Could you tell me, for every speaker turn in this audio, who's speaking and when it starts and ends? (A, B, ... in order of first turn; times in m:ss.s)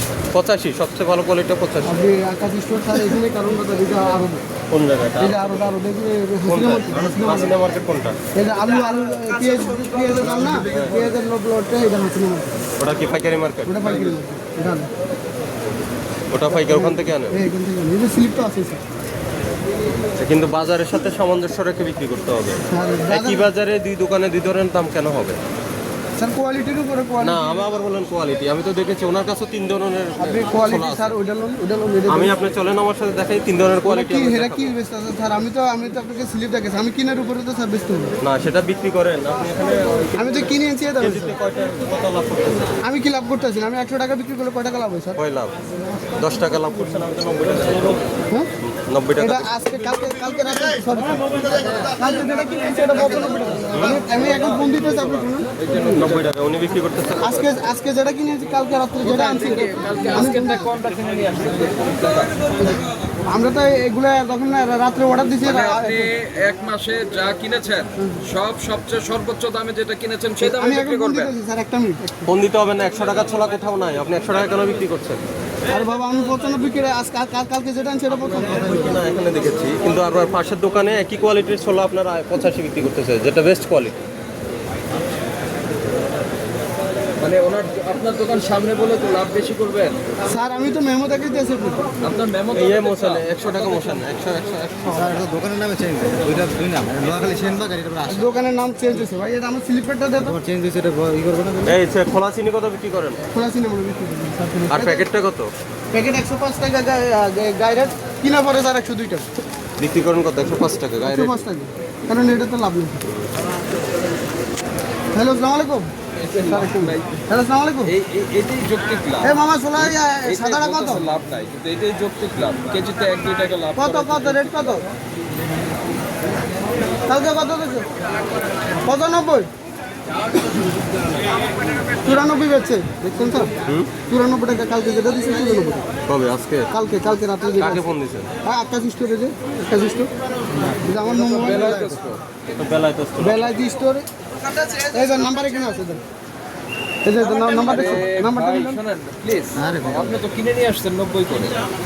0:00.3-0:02.0 A
0:01.8-0:04.4 B
0:04.7-0:05.7 A
0:05.2-0:07.6 B
0:06.5-0:08.2 A
0:08.3-0:12.6 B
0:10.4-0:11.1 A
0:12.8-0:14.2 A
0:13.6-0:14.9 B
0:16.3-0:17.4 A
0:16.5-0:18.8 B
0:20.2-0:25.4 A
0:22.7-0:23.5 B
0:26.2-0:27.5 B
0:27.2-0:31.2 A
0:30.2-0:32.4 B
0:32.1-0:34.8 A
0:33.8-0:38.2 B
0:38.2-0:42.8 A
0:40.1-0:41.4 B
0:42.8-0:45.2 B
0:45.2-0:45.5 A
0:46.2-0:48.0 A
0:48.6-0:49.5 A
0:49.2-0:55.5 B
0:53.9-0:54.7 C
0:55.6-0:56.3 C
0:55.9-0:57.5 A
0:57.2-1:00.7 B
0:59.0-1:02.4 C
1:02.6-1:06.1 B
1:05.4-1:11.3 C
1:10.4-1:12.3 B
1:12.3-1:15.2 A
1:15.7-1:19.0 B
1:18.2-1:24.0 A
1:27.2-1:30.0 C
1:30.2-1:32.0 B
1:32.0-1:34.0 C
1:32.5-1:35.3 A
1:35.0-1:38.2 D
1:38.0-1:40.4 B
1:40.2-1:41.8 D
1:41.6-1:43.2 A
1:43.3-1:45.1 B
1:44.7-1:45.5 A
1:45.9-1:49.3 B
1:49.8-1:51.4 A
1:51.0-1:53.0 B
1:55.1-1:55.9 B
1:56.2-1:57.2 C
1:56.4-1:57.9 B
1:57.9-2:04.8 C
1:59.2-2:01.1 B
2:03.8-2:04.8 B
2:07.1-2:07.9 B
2:08.8-2:09.5 B
2:12.0-2:15.8 B
2:13.6-2:13.9 A
2:16.1-2:16.7 A
2:16.7-2:17.9 B
2:17.6-2:18.3 A
2:18.4-2:20.1 B
2:20.8-2:22.0 B
2:21.0-2:22.2 C
2:22.6-2:23.6 A
2:23.2-2:24.1 B
2:24.8-2:26.0 B
2:27.0-2:28.8 B
2:27.6-2:31.6 C
2:29.6-2:30.2 D